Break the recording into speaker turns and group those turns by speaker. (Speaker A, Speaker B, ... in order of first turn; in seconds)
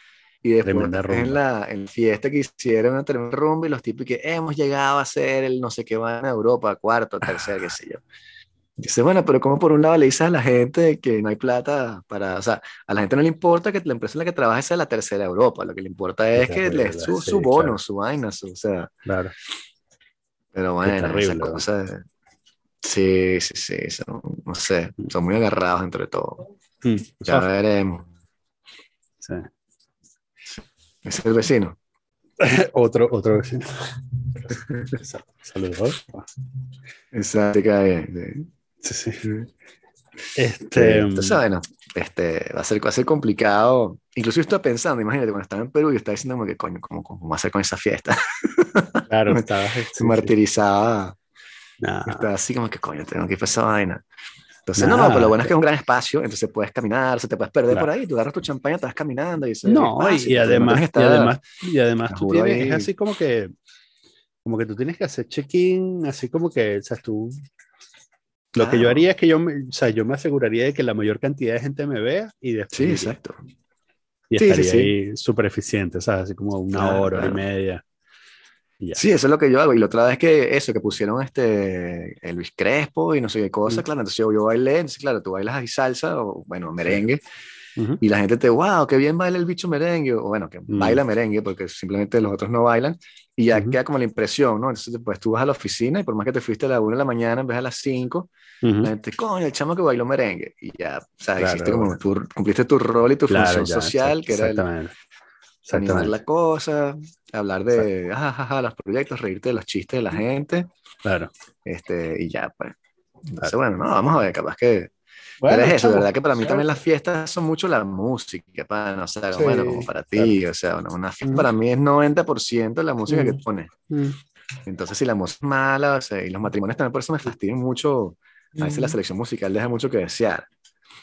Speaker A: 0.4-8.0, 8.8-18.9, 20.5-22.1, 22.8-26.5, 27.3-28.1, 30.5-31.8, 34.7-35.0, 37.1-38.5, 40.8-51.2, 52.1-54.0, 54.7-61.4, 62.1-62.9, 68.6-69.0, 72.7-73.4, 74.4-74.9, 76.7-77.4, 78.9-87.2, 88.0-98.3, 98.8-104.7, 105.7-110.7, 111.7-114.9, 115.5-123.7, 124.7-130.5
Speaker B: 0.6-1.4, 16.4-17.8, 19.1-19.3, 20.8-21.7, 26.8-27.5, 29.2-29.5, 32.4-36.3, 38.8-39.2, 40.4-41.4, 49.1-50.3, 51.8-52.3, 54.8-55.5, 59.6-63.5, 64.4-67.4, 68.5-73.1, 74.3-77.8, 90.7-91.0, 98.6-98.9, 101.4-101.9, 103.3-104.9, 105.7-106.2, 111.0-111.3, 115.4-116.6, 119.3-120.4, 123.1-124.2, 128.6-128.9